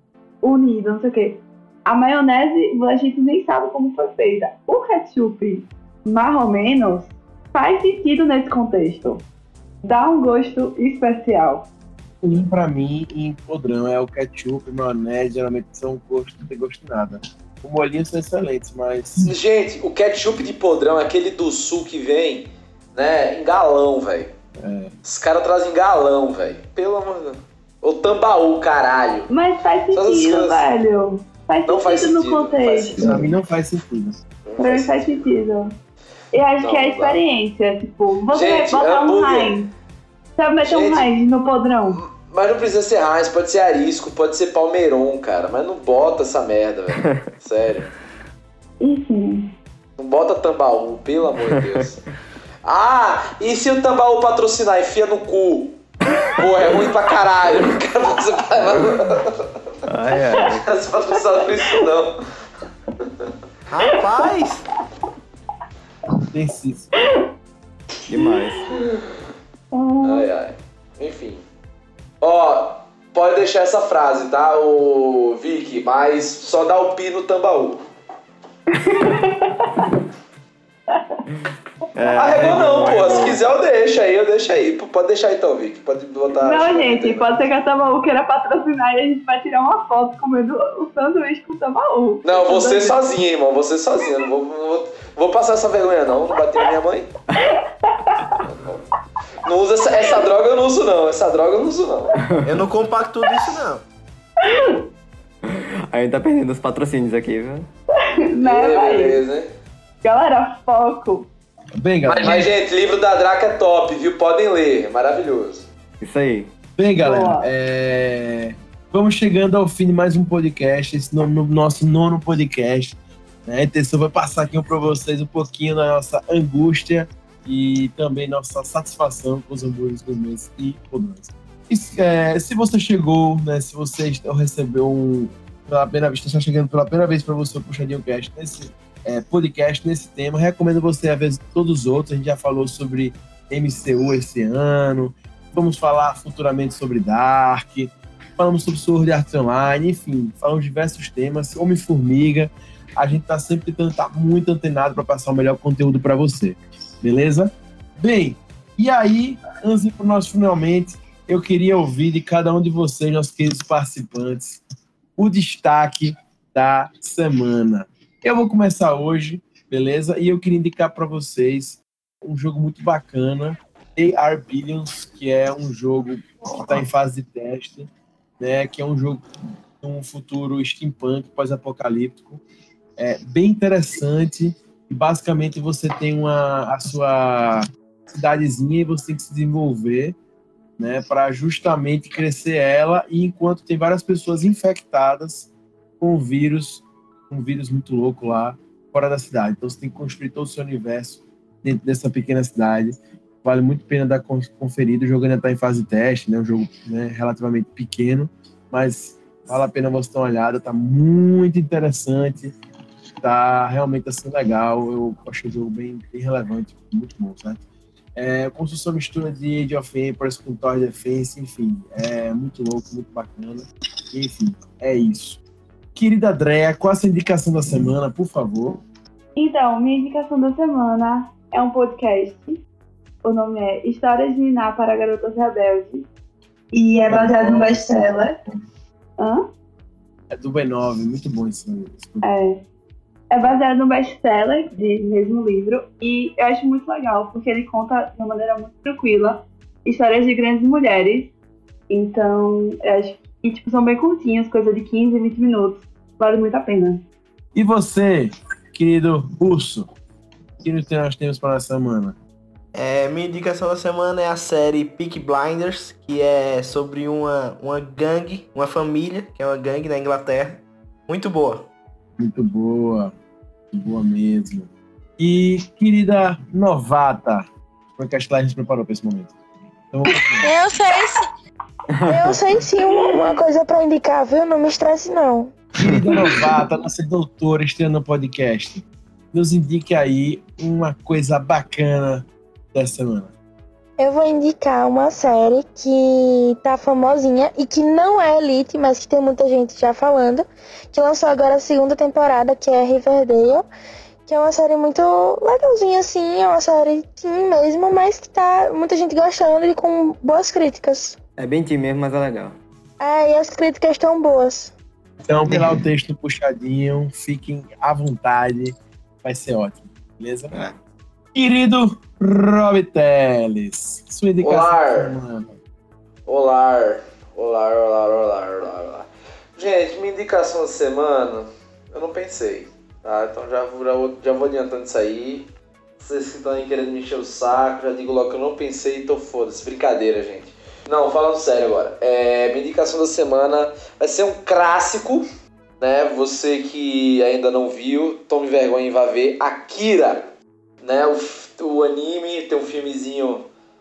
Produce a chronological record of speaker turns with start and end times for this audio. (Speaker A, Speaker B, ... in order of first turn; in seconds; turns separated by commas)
Speaker A: 0.4-9.3, Speaker A: 9.8-11.7, Speaker B: 12.2-19.3, Speaker C: 19.2-24.3, Speaker B: 24.6-24.9, Speaker C: 25.1-29.3, Speaker A: 29.3-33.1, Speaker C: 29.9-30.7, Speaker C: 31.7-33.2, Speaker B: 33.0-34.2, Speaker C: 34.5-35.3, Speaker A: 34.6-35.8, Speaker A: 36.3-39.7, Speaker C: 36.6-37.2, Speaker C: 38.3-39.6, Speaker A: 40.4-42.0, Speaker C: 40.6-41.1, Speaker C: 41.9-47.9, Speaker A: 48.8-49.5, Speaker C: 50.0-52.0, Speaker C: 52.6-55.8, Speaker C: 56.3-59.5, Speaker D: 59.9-60.7, Speaker C: 60.4-62.1, Speaker C: 63.0-63.3, Speaker E: 63.7-64.7, Speaker B: 66.3-67.0, Speaker D: 68.1-68.7, Speaker A: 68.2-68.5, Speaker A: 69.7-70.3, Speaker C: 70.0-71.4, Speaker C: 72.2-77.8, Speaker A: 78.7-80.0, Speaker A: 80.9-81.2, Speaker D: 82.0-83.4, Speaker C: 82.1-87.3, Speaker A: 86.4-93.0, Speaker C: 92.2-97.1, Speaker A: 97.4-98.4, Speaker C: 99.4-102.2, Speaker D: 102.2-102.6, Speaker E: 102.4-103.8, Speaker A: 104.4-104.9, Speaker D: 105.4-107.7, Speaker A: 108.0-109.2, Speaker C: 108.4-109.5, Speaker A: 110.0-111.3, Speaker B: 111.8-112.5, Speaker C: 112.1-115.7, Speaker D: 116.0-116.5, Speaker B: 116.8-164.6, Speaker A: 117.0-117.5, Speaker B: 165.2-179.2, Speaker B: 179.8-182.4, Speaker B: 183.0-190.2, Speaker B: 190.8-212.6, Speaker B: 213.2-217.6, Speaker B: 218.2-225.4, Speaker B: 225.9-228.8, Speaker A: 229.4-232.6, Speaker A: 233.2-236.1, Speaker A: 236.7-238.4, Speaker B: 237.1-238.6, Speaker A: 239.2-239.5, Speaker B: 240.3-242.3, Speaker A: 242.2-242.6, Speaker A: 243.3-251.3, Speaker A: 251.9-257.1, Speaker B: 257.6-259.9, Speaker B: 260.6-262.2, Speaker E: 262.7-271.7, Speaker B: 272.2-273.1, Speaker B: 273.7-279.3, Speaker B: 279.9-280.5, Speaker F: 280.4-281.3, Speaker D: 281.9-282.4, Speaker F: 282.1-285.5, Speaker B: 285.8-293.3, Speaker D: 285.8-286.5, Speaker F: 294.0-303.6, Speaker F: 304.3-311.2, Speaker D: 311.4-312.6, Speaker F: 313.0-314.7, Speaker B: 315.2-320.5, Speaker D: 315.5-315.8, Speaker B: 321.3-325.5, Speaker C: 324.4-325.2, Speaker C: 326.3-345.3, Speaker C: 345.8-350.3, Speaker C: 350.8-353.4